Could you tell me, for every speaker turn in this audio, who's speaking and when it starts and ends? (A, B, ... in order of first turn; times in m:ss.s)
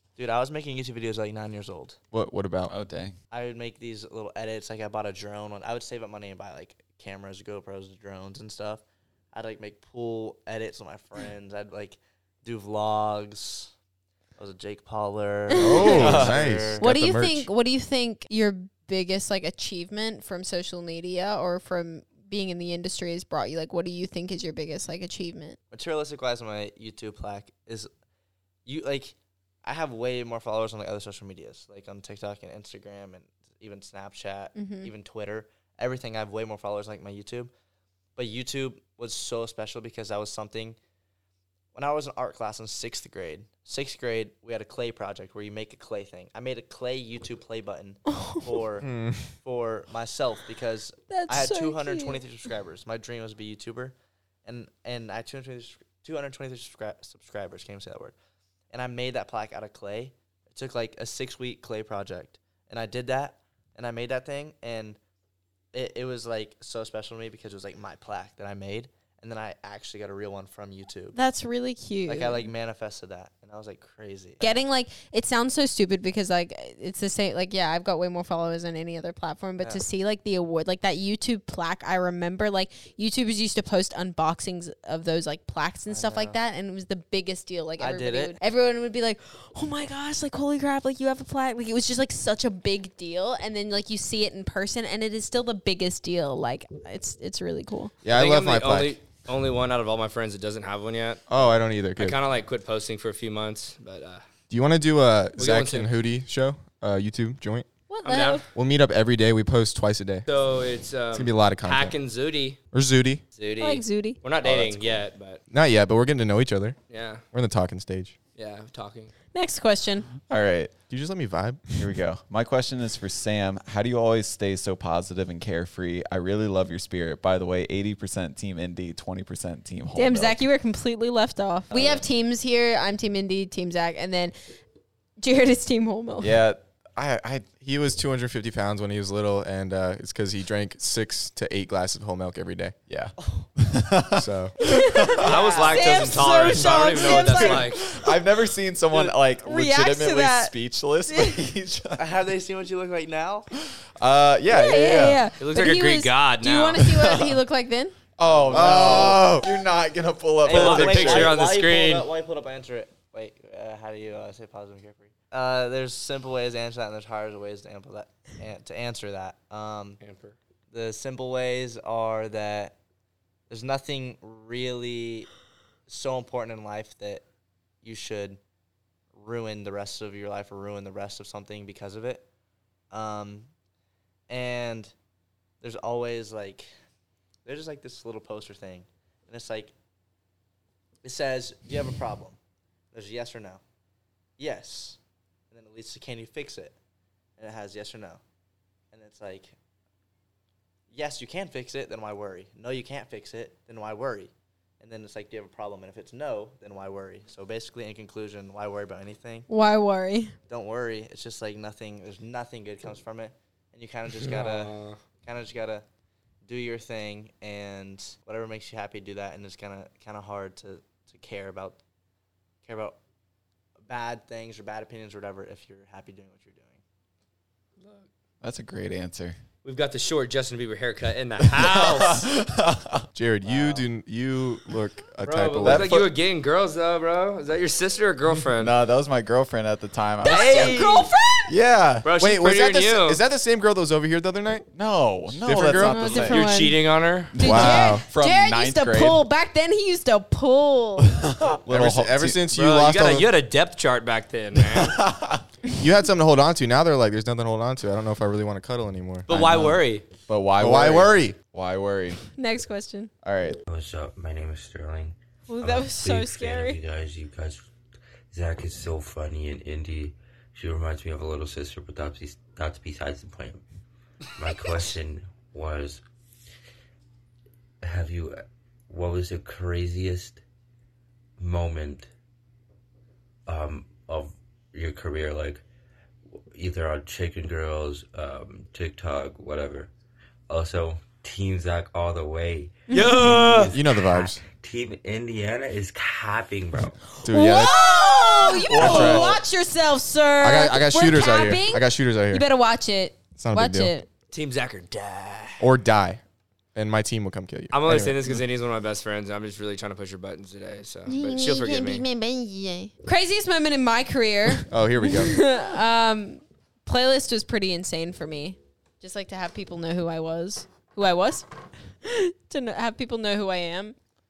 0:00.2-0:02.0 A
0:02.1-0:02.7 B
0:02.7-0:03.2 C
0:03.3-0:13.7 A
0:14.4-0:16.9 A
0:15.5-0:25.6 D
0:15.6-0:17.5 B
0:15.8-0:16.4 C
0:25.7-0:27.9 A
0:28.6-0:37.5 A
0:34.6-0:34.9 D
0:38.2-0:40.8 A
0:41.7-0:58.1 A
0:48.1-0:48.5 D
0:48.8-0:49.3 B
0:51.1-0:52.2 D
0:58.7-1:05.0 A
1:05.7-1:11.2 A
1:11.1-1:12.5 D
1:12.1-1:14.5 A
1:14.4-1:37.9 D
1:25.9-1:26.4 A
1:27.8-1:28.4 A
1:38.0-1:39.0 B
1:38.1-1:41.4 E
1:41.3-1:42.2 B
1:42.0-1:44.2 E
1:44.5-1:47.7 B
1:45.4-1:45.9 E
1:47.9-1:48.5 D
1:48.0-1:48.4 E
1:48.5-1:50.3 B
1:50.3-1:52.6 E
1:51.1-1:52.0 B
1:52.7-1:53.2 B
1:53.4-1:55.4 E
1:53.6-1:54.2 D
1:54.4-1:55.0 C
1:55.5-1:56.8 B
1:56.9-1:57.2 E
1:57.3-1:58.1 B
1:58.4-1:59.1 E
1:59.3-2:00.1 D
2:00.3-2:00.7 C
2:00.9-2:01.8 B
2:01.8-2:10.4 C
2:10.0-2:14.3 D
2:11.7-2:12.0 C
2:15.2-2:16.4 D
2:16.2-2:17.5 C
2:17.6-2:22.8 B
2:22.9-2:25.3 C
2:23.2-2:23.4 A
2:24.2-2:24.6 B
2:24.6-2:28.1 D
2:25.2-2:27.9 E
2:25.2-2:26.2 A
2:27.2-2:32.1 C
2:29.4-2:30.5 D
2:31.1-2:31.4 D
2:32.0-2:33.5 A
2:33.6-2:35.2 C
2:34.5-2:38.0 D
2:35.4-2:36.8 E
2:36.8-2:37.4 C
2:38.2-2:41.4 C
2:38.5-2:39.5 B
2:38.5-2:39.1 A
2:40.4-2:50.0 A
2:40.5-2:42.1 E
2:50.0-2:50.4 E
2:50.7-2:52.8 A
2:53.5-2:55.3 A
2:55.9-2:57.2 A
2:57.8-2:58.4 A
2:59.2-3:02.2 A
3:02.9-3:03.5 A
3:04.3-3:04.9 A
3:05.6-3:06.7 A
3:07.4-3:09.7 A
3:11.0-3:12.4 A
3:12.9-3:13.6 A
3:14.4-3:15.0 A
3:15.5-3:16.8 A
3:17.4-3:18.2 A
3:18.9-3:19.5 A
3:20.9-3:29.5 A
3:29.5-3:30.3 D
3:30.5-3:35.8 A
3:34.1-3:35.0 E
3:36.4-3:41.8 A
3:42.6-3:43.0 A
3:43.8-3:46.8 A
3:47.8-3:48.1 E
3:48.4-3:49.4 C
3:49.6-3:52.3 E
3:51.4-3:53.1 C
3:53.1-3:56.0 B
3:53.4-3:53.8 A
3:55.2-3:58.7 E
3:55.6-3:56.1 C
3:58.6-4:00.8 C
4:00.2-4:01.5 D
4:00.2-4:01.1 E
4:01.5-4:02.1 C
4:02.0-4:03.2 E
4:02.2-4:04.7 B
4:04.7-4:06.5 C
4:05.4-4:05.9 B
4:05.6-4:06.8 D
4:05.7-4:07.4 E
4:07.3-4:09.2 C
4:07.4-4:11.2 D
4:07.4-4:08.0 B
4:11.0-4:12.4 C
4:11.7-4:13.3 B
4:12.5-4:15.0 E
4:14.7-4:15.4 C
4:15.8-4:19.3 B
4:19.3-4:20.0 E
4:19.3-4:22.2 C
4:20.6-4:21.4 B
4:22.4-4:23.1 D
4:23.2-4:23.6 C
4:23.7-4:27.7 F
4:25.5-4:26.8 D
4:28.3-4:33.6 F
4:34.4-4:36.0 F
4:37.8-4:40.4 F
4:41.4-4:42.1 F
4:43.5-4:45.6 F
4:46.5-4:49.9 F
4:50.5-4:57.0 F
4:52.9-4:53.5 D
4:52.9-4:53.7 E
4:53.7-4:54.4 B
4:57.2-5:04.1 D
4:57.2-4:57.8 B
4:58.7-4:59.4 C
4:58.7-4:59.4 B
5:00.4-5:02.4 B
5:03.4-5:03.9 B
5:04.3-5:05.6 E
5:05.6-5:06.2 B
5:06.7-5:08.4 B
5:07.7-5:12.0 E
5:11.1-5:21.5 D
5:14.7-5:15.4 B
5:22.0-5:24.0 D